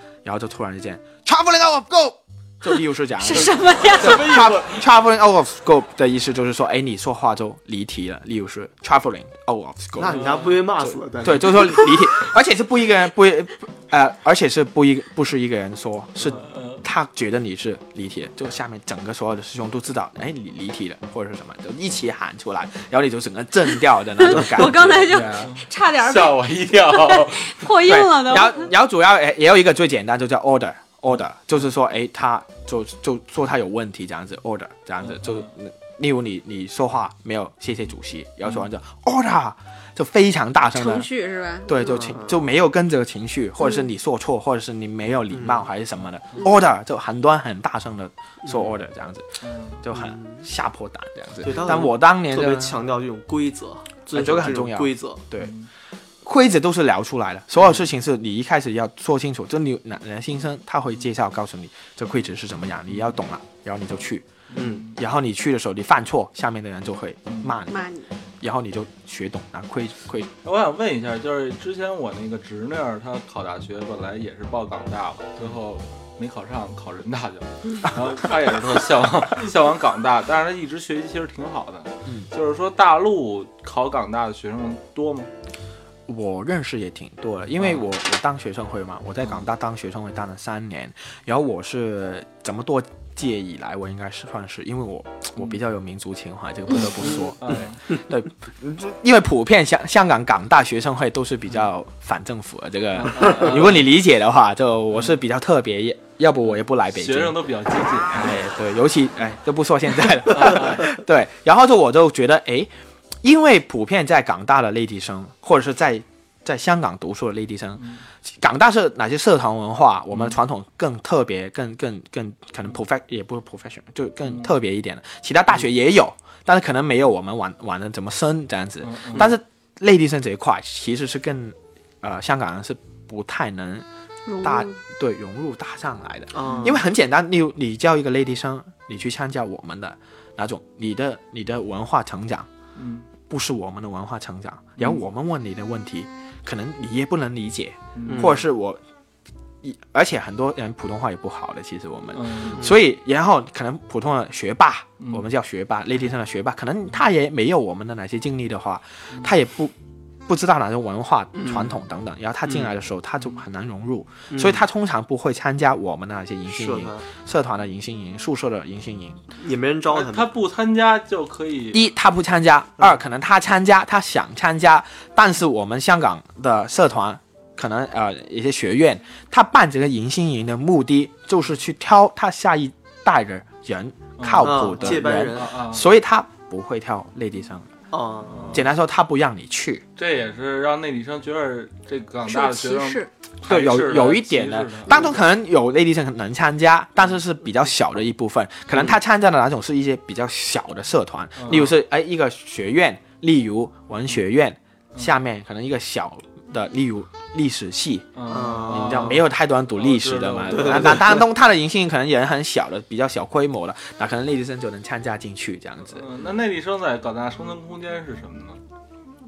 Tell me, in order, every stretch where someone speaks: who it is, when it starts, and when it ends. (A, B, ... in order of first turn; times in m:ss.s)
0:00.2-0:10.2 A
0:03.2-0:04.4 B
0:03.8-0:04.8 C
0:10.0-0:11.9 D
0:10.0-0:10.6 C
0:10.8-0:25.5 A
0:16.2-0:16.8 C
0:24.2-0:28.7 B
0:25.1-0:27.6 C
0:27.8-0:41.1 A
0:35.0-0:35.5 C
0:40.7-0:41.8 B
0:41.6-0:52.8 A
0:41.8-0:42.4 D
0:45.3-0:45.6 D
0:49.4-0:49.8 C
0:49.9-0:50.4 D
0:51.4-0:55.2 D
0:54.1-0:55.5 A
0:55.4-0:55.7 C
0:56.2-1:04.3 A
1:04.5-1:05.0 C
1:04.5-1:04.9 D
1:04.9-1:10.3 A
1:07.3-1:07.5 C
1:07.7-1:08.1 B
1:10.4-1:25.3 C
1:26.1-1:47.5 A
1:37.2-1:37.8 C
1:43.0-1:43.9 C
1:46.9-1:48.4 C
1:48.1-2:13.8 A
1:50.3-1:50.9 C
2:08.8-2:09.3 C
2:14.3-2:14.8 B
2:14.4-2:22.5 A
2:16.3-2:16.8 D
2:22.8-2:23.0 C
2:23.3-2:28.8 A
2:28.0-2:28.4 C
2:28.1-2:28.4 D
2:29.6-2:39.7 A
2:32.1-2:32.7 C
2:32.5-2:32.8 D
2:40.3-2:49.2 A
2:41.3-2:41.7 D
2:42.4-2:42.7 D
2:44.3-2:44.6 D
2:46.5-2:47.0 D
2:49.4-2:50.3 D
2:49.9-2:51.8 C
2:51.7-3:07.7 A
3:04.2-3:05.9 C
3:04.4-3:05.6 D
3:07.9-3:08.5 D
3:08.5-3:09.8 A
3:10.0-3:15.1 C
3:12.3-3:13.1 B
3:13.4-3:28.1 A
3:21.4-3:21.7 C
3:28.1-3:31.2 C
3:28.3-3:29.2 D
3:28.6-3:36.0 A
3:30.5-3:31.2 D
3:35.9-3:38.6 C